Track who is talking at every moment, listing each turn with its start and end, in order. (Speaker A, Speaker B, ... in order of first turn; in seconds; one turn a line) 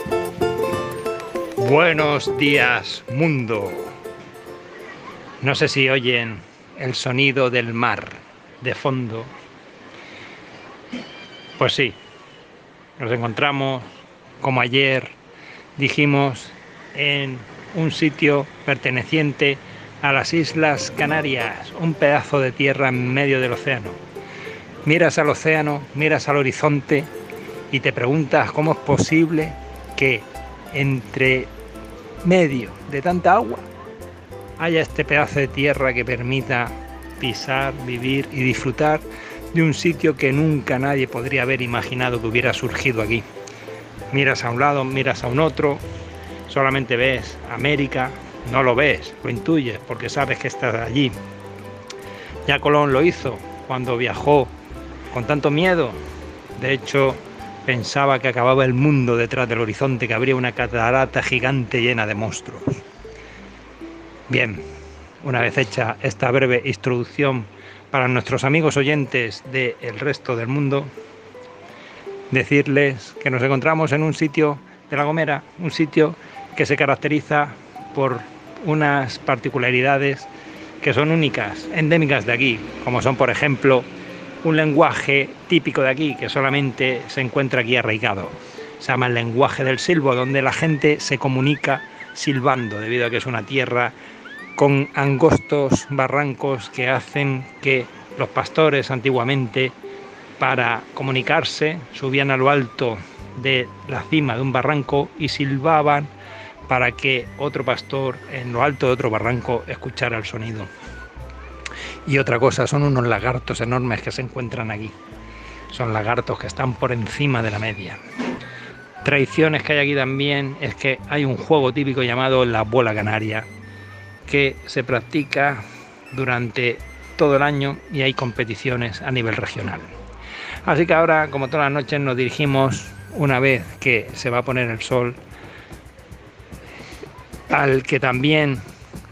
Speaker A: 1.6-3.9
Speaker A: 5.4-9.3
Speaker A: 11.6-12.0
Speaker A: 13.0-13.8
Speaker A: 14.4-15.2
Speaker A: 15.8-24.0
Speaker A: 24.8-27.1
Speaker A: 27.7-31.5
Speaker A: 32.2-33.6
Speaker A: 34.6-43.2
Speaker A: 44.1-45.8
Speaker A: 46.5-51.1
Speaker A: 52.5-54.5
Speaker A: 55.1-56.0
Speaker A: 56.6-62.8
Speaker A: 64.3-64.6
Speaker A: 65.2-70.9
Speaker A: 72.3-80.3
Speaker A: 80.8-83.9
Speaker A: 84.4-93.9
Speaker A: 94.5-99.7
Speaker A: 100.4-106.1
Speaker A: 106.7-110.7
Speaker A: 112.0-114.9
Speaker A: 115.7-118.0
Speaker A: 119.0-123.5
Speaker A: 124.3-125.6
Speaker A: 126.1-129.9
Speaker A: 130.6-135.2
Speaker A: 137.5-138.6